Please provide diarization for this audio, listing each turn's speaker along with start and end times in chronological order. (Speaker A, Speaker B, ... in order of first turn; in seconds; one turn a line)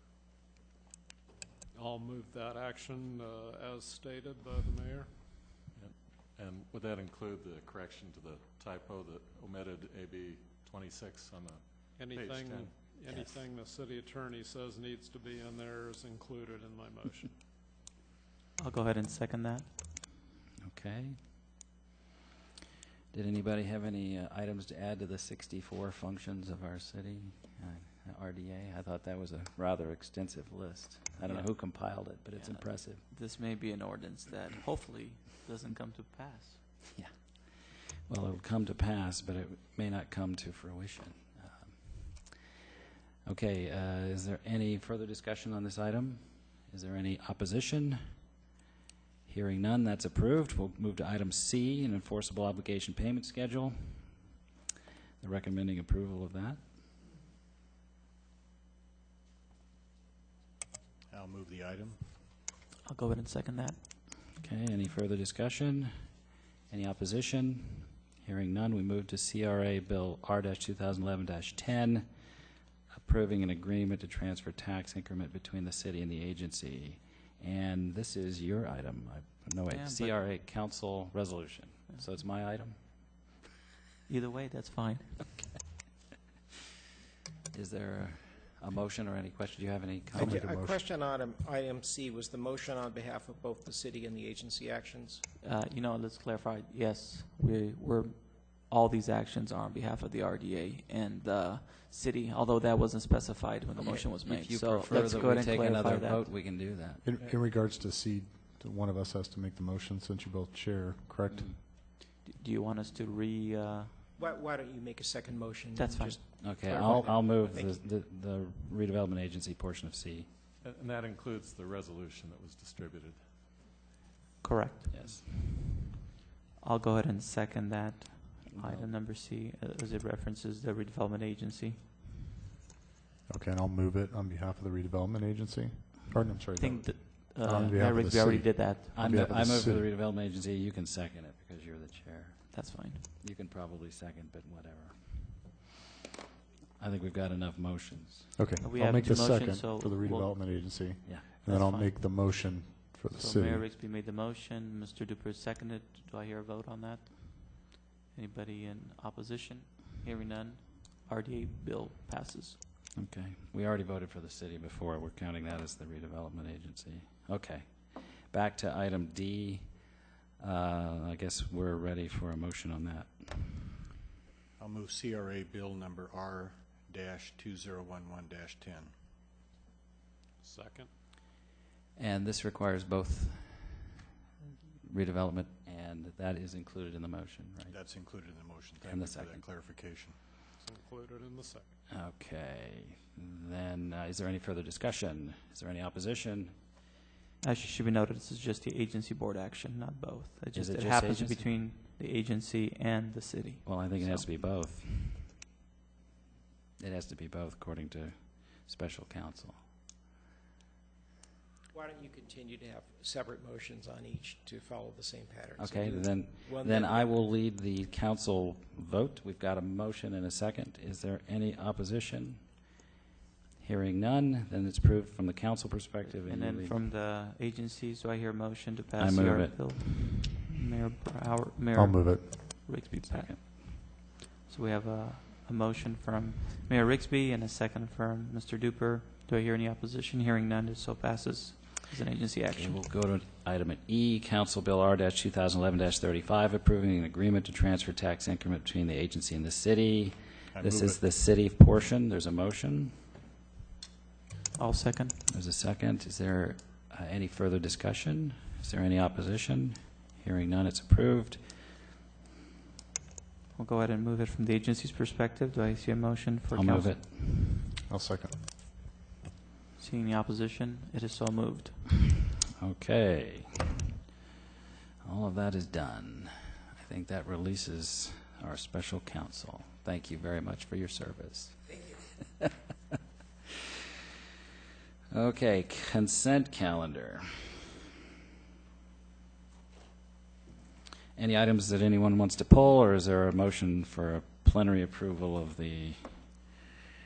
Speaker A: 1.7-5.1
Speaker B: 5.7-12.9
Speaker A: 11.9-17.3
Speaker C: 13.1-13.3
Speaker D: 18.6-19.7
Speaker C: 20.6-21.2
Speaker C: 23.1-33.0
Speaker D: 31.2-36.7
Speaker C: 36.9-42.5
Speaker C: 43.2-48.2
Speaker C: 49.2-54.2
Speaker C: 55.2-56.6
Speaker E: 61.1-62.0
Speaker D: 62.9-63.8
Speaker C: 64.4-66.1
Speaker C: 66.7-83.3
Speaker D: 79.7-80.2
Speaker D: 81.9-82.2
Speaker D: 84.1-85.5
Speaker C: 87.5-90.4
Speaker F: 90.1-90.8
Speaker G: 90.2-95.2
Speaker D: 95.4-106.5
Speaker C: 103.8-107.0
Speaker F: 107.0-111.6
Speaker C: 111.3-111.6
Speaker D: 112.2-113.9
Speaker G: 114.2-117.8
Speaker D: 115.7-117.4
Speaker C: 116.4-120.3
Speaker B: 120.6-123.2
Speaker D: 124.4-124.9
Speaker C: 124.9-125.5
Speaker D: 126.6-131.8
Speaker C: 128.5-128.9
Speaker F: 133.3-139.9
Speaker D: 136.6-139.2
Speaker C: 138.9-145.6
Speaker D: 142.5-143.0
Speaker C: 146.8-148.3
Speaker F: 148.4-153.7
Speaker D: 148.6-152.5
Speaker D: 153.2-162.6
Speaker C: 162.9-173.7
Speaker E: 174.6-178.9
Speaker A: 180.4-180.9
Speaker C: 181.9-183.9
Speaker C: 184.9-187.8
Speaker E: 187.7-190.2
Speaker C: 188.8-189.4
Speaker A: 190.6-191.8
Speaker C: 191.9-196.5
Speaker D: 197.4-204.3
Speaker C: 200.5-201.5
Speaker C: 203.6-205.3
Speaker C: 206.8-209.6
Speaker G: 211.7-217.1
Speaker C: 215.6-222.5
Speaker C: 223.6-226.8
Speaker D: 226.0-242.9
Speaker C: 229.0-229.9
Speaker F: 231.8-232.3
Speaker C: 233.1-233.4
Speaker C: 242.5-252.9
Speaker E: 250.5-251.0
Speaker D: 254.6-255.2
Speaker C: 255.3-261.4
Speaker D: 263.6-267.0
Speaker C: 266.5-267.6
Speaker F: 267.9-268.4
Speaker D: 269.8-272.1
Speaker C: 272.6-273.6
Speaker C: 275.0-282.4
Speaker C: 285.1-287.4
Speaker C: 291.1-296.5